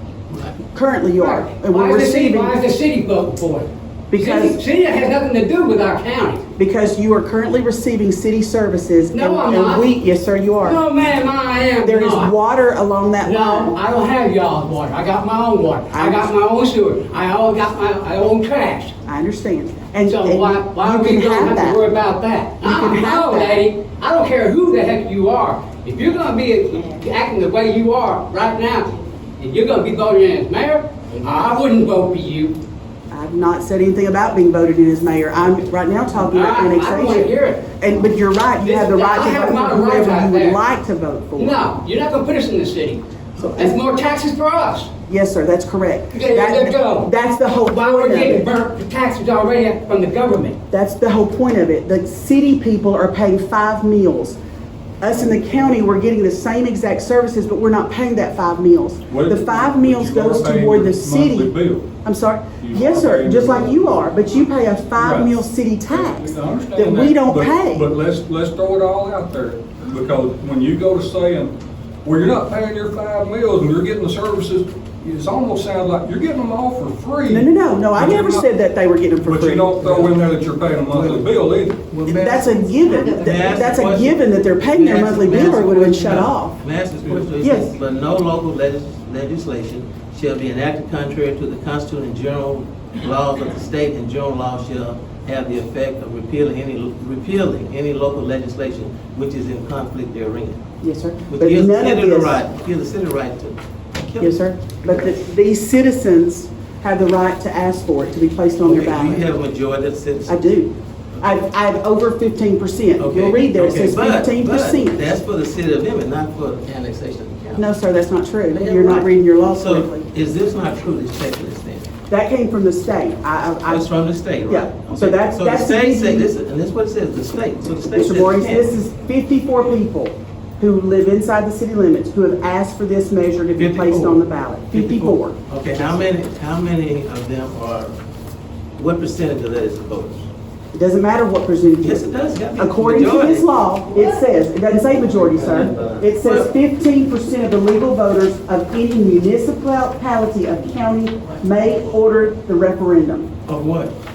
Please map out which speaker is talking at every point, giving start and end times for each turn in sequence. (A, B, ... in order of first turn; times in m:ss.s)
0:00.7-0:02.6 A
0:01.2-0:06.4 B
0:04.1-0:04.6 A
0:06.6-0:10.8 A
0:09.1-0:09.9 B
0:10.6-0:12.3 B
0:11.8-0:13.8 A
0:13.2-0:18.9 B
0:15.9-0:16.3 A
0:19.0-0:21.8 A
0:20.1-0:32.6 B
0:22.6-0:23.6 A
0:33.1-0:41.6 A
0:36.2-0:37.8 B
0:38.6-0:40.6 B
0:41.4-0:44.9 B
0:43.4-0:43.8 A
0:45.1-0:48.4 A
0:46.1-0:50.6 B
0:50.7-0:54.4 A
0:55.0-1:07.9 A
0:59.1-1:01.9 C
1:02.6-1:04.3 C
1:05.0-1:05.3 C
1:05.9-1:18.4 C
1:17.3-1:20.1 A
1:19.2-1:22.4 C
1:20.9-1:21.2 D
1:22.0-1:26.6 A
1:23.2-1:40.6 D
1:27.4-1:27.7 A
1:40.8-1:42.4 A
1:41.3-1:45.1 D
1:44.2-1:49.3 A
1:48.6-1:50.5 D
1:50.3-1:55.1 A
1:53.0-1:57.7 D
1:57.6-2:00.1 A
1:58.5-2:01.9 D
2:02.1-2:03.9 A
2:03.6-2:08.7 D
2:04.5-2:06.3 A
2:07.9-2:15.4 A
2:13.5-2:18.0 D
2:18.8-2:20.3 D
2:20.7-2:33.3 A
2:21.8-2:23.6 D
2:25.0-2:26.5 D
2:33.4-2:33.9 D